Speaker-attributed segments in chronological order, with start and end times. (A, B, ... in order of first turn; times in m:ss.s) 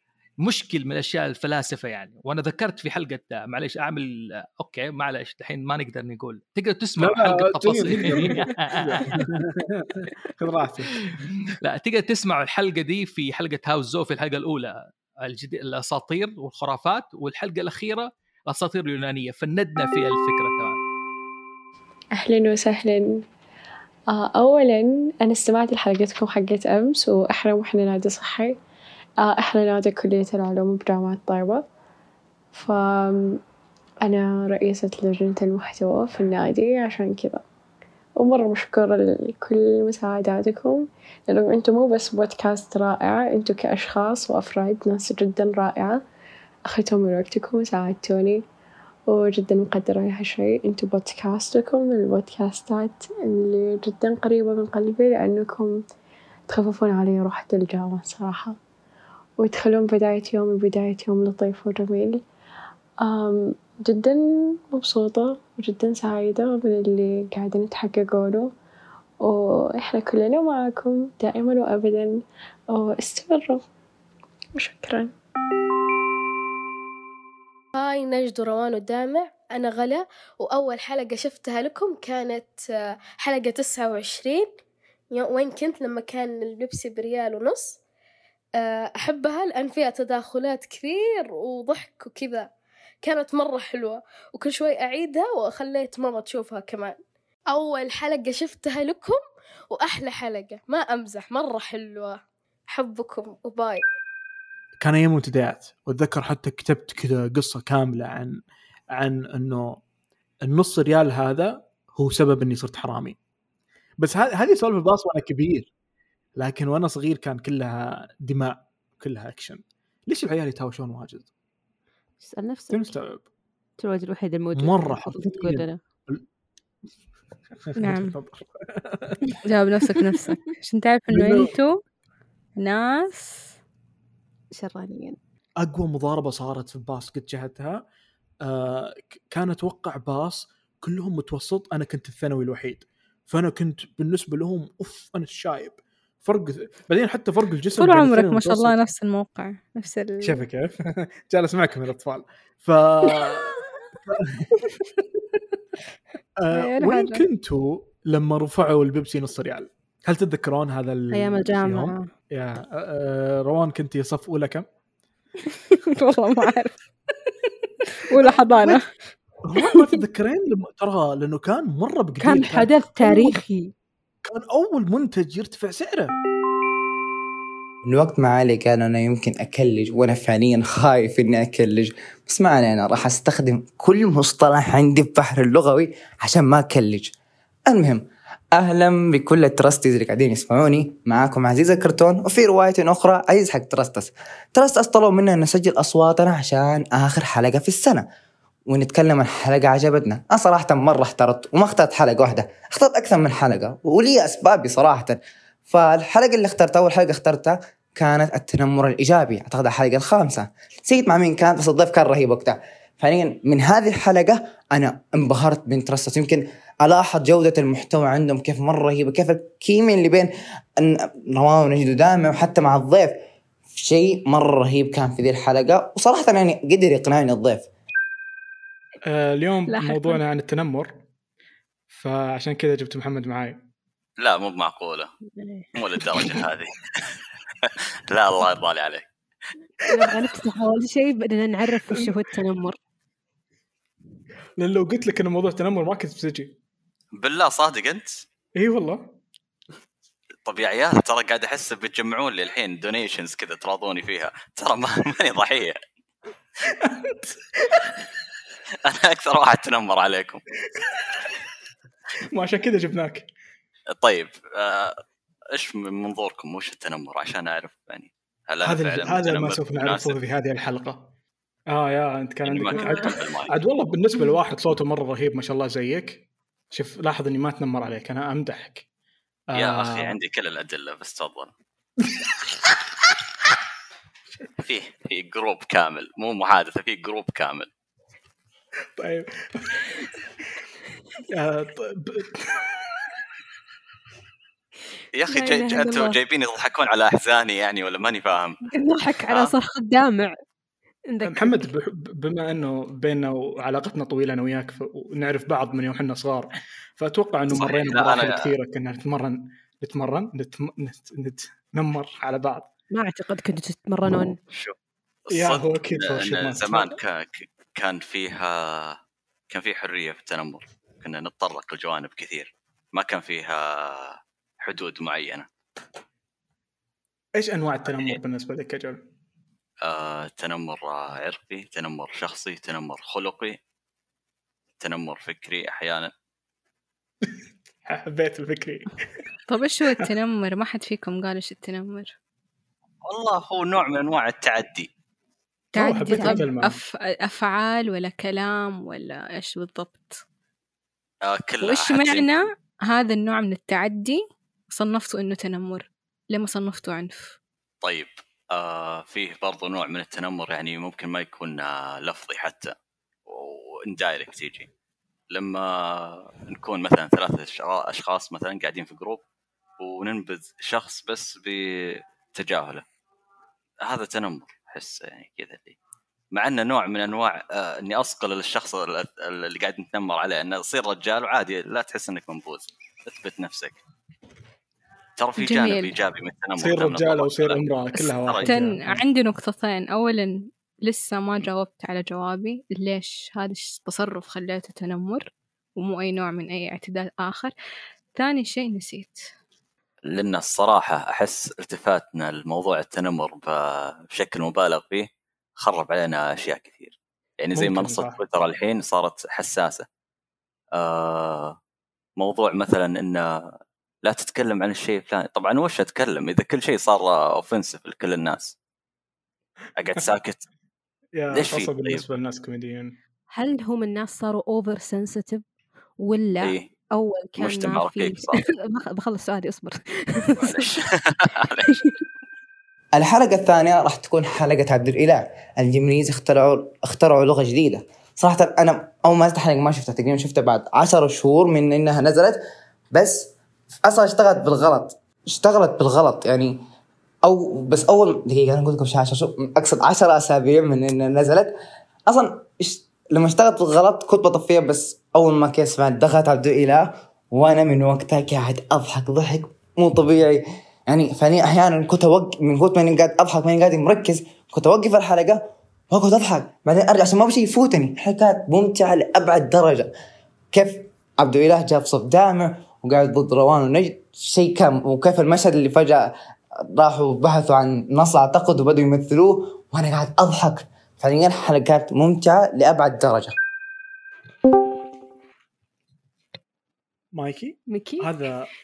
0:00.4-0:09.3 A
0:07.0-0:11.0 B
0:11.6-0:20.8 A
0:22.2-0:23.2 C
0:24.1-0:28.6 C
0:29.2-0:31.7 C
0:32.5-0:33.4 C
0:34.0-0:37.4 C
0:38.2-0:46.0 C
0:46.7-0:48.4 C
0:49.1-0:55.8 C
0:56.5-0:58.6 C
0:59.4-1:02.2 C
1:03.0-1:08.5 C
1:09.2-1:13.6 C
1:14.6-1:15.1 C
1:17.8-1:22.6 D
1:23.2-1:24.5 D
1:25.1-1:27.8 D
1:28.6-1:32.5 D
1:33.0-1:37.0 D
1:37.5-1:39.2 D
1:39.7-1:43.9 D
1:44.8-1:48.4 B
1:49.0-1:49.8 B
1:50.5-1:53.2 B
1:54.0-1:55.7 B
1:56.4-2:01.3 B
2:02.2-2:03.0 E
2:02.7-2:03.3 B
2:03.8-2:05.8 E
2:04.6-2:06.2 B
2:07.8-2:09.2 B
2:07.8-2:08.2 F
2:09.4-2:11.8 F
2:11.1-2:11.5 B
2:12.6-2:13.6 F
2:14.6-2:15.2 E
2:15.6-2:17.8 B
2:18.4-2:28.8 B
2:27.8-2:30.5 F
2:30.2-2:34.6 B
2:36.4-2:44.7 B
2:36.5-2:37.2 F
2:41.1-2:42.1 E
2:45.9-2:46.8 F
2:48.1-2:48.8 F
2:48.3-2:48.8 B
2:49.5-2:53.4 B
2:49.6-2:49.9 F
2:52.2-2:53.7 E
2:54.3-2:56.1 B
2:57.9-3:07.1 G
3:07.7-3:08.0 G
3:08.6-3:18.0 G
3:18.7-3:25.2 G
3:25.7-3:43.2 G
3:43.8-3:47.7 G
3:49.0-3:51.0 B
3:49.7-3:50.2 F
3:51.9-3:53.6 B
3:54.2-3:55.1 H
3:55.8-3:56.7 H
3:58.1-3:59.1 H
3:59.9-4:02.8 E
3:59.9-4:00.2 B
4:01.9-4:02.2 B
4:04.6-4:06.5 B
4:07.2-4:08.2 H
4:08.6-4:09.1 B
4:10.5-4:15.8 H
4:16.6-4:17.8 B
4:18.9-4:20.4 H
4:22.3-4:23.3 B
4:24.0-4:25.0 H
4:25.6-4:30.2 H
4:28.6-4:31.1 B
4:31.7-4:38.9 B
4:32.5-4:33.5 H
4:39.5-4:40.2 B
4:39.6-4:41.5 H
4:44.6-4:47.7 H
4:49.0-4:50.1 B
4:51.3-4:52.6 B
4:55.2-4:58.6 H
4:55.3-4:56.1 E
4:58.8-5:00.3 E
5:01.1-5:01.7 E
5:01.2-5:12.7 B
5:07.5-5:08.5 H
5:12.9-5:14.4 E
5:14.5-5:14.8 H
5:15.3-5:19.0 H
5:15.3-5:17.0 B
5:19.5-5:25.5 H
5:27.4-5:29.0 B
5:29.8-5:33.6 H
5:34.8-5:36.1 H
5:37.9-5:38.9 B
5:39.5-5:42.1 F
5:43.0-5:44.9 H
5:45.8-5:46.8 B
5:45.8-5:50.2 F
5:46.1-5:46.4 E
5:51.3-5:52.3 H
5:51.6-5:57.4 F
5:57.8-6:02.7 H
6:03.3-6:04.7 H
6:05.3-6:09.2 H
6:09.8-6:12.8 H
6:13.8-6:15.8 H
6:16.3-6:23.8 H
6:25.2-6:28.5 H
6:25.4-6:25.9 F
6:26.6-6:29.0 B
6:28.4-6:37.5 F
6:38.2-6:39.3 F
6:40.1-6:45.1 H
6:45.6-6:49.8 H
6:47.6-6:48.2 B
6:50.8-6:51.6 H
6:52.2-6:53.5 H
6:54.0-6:58.6 H
6:59.8-7:00.4 H
7:01.2-7:03.0 B
7:01.3-7:02.0 H
7:03.3-7:05.4 E
7:06.0-7:10.7 E
7:07.4-7:08.4 H
7:10.4-7:11.7 H
7:13.0-7:22.4 G
7:22.9-7:23.3 G
7:23.8-7:26.6 G
7:27.2-7:31.5 G
7:32.1-7:49.9 G
7:50.5-7:56.1 G
7:56.8-8:03.4 G
8:07.2-8:08.5 B
8:07.7-8:08.2 E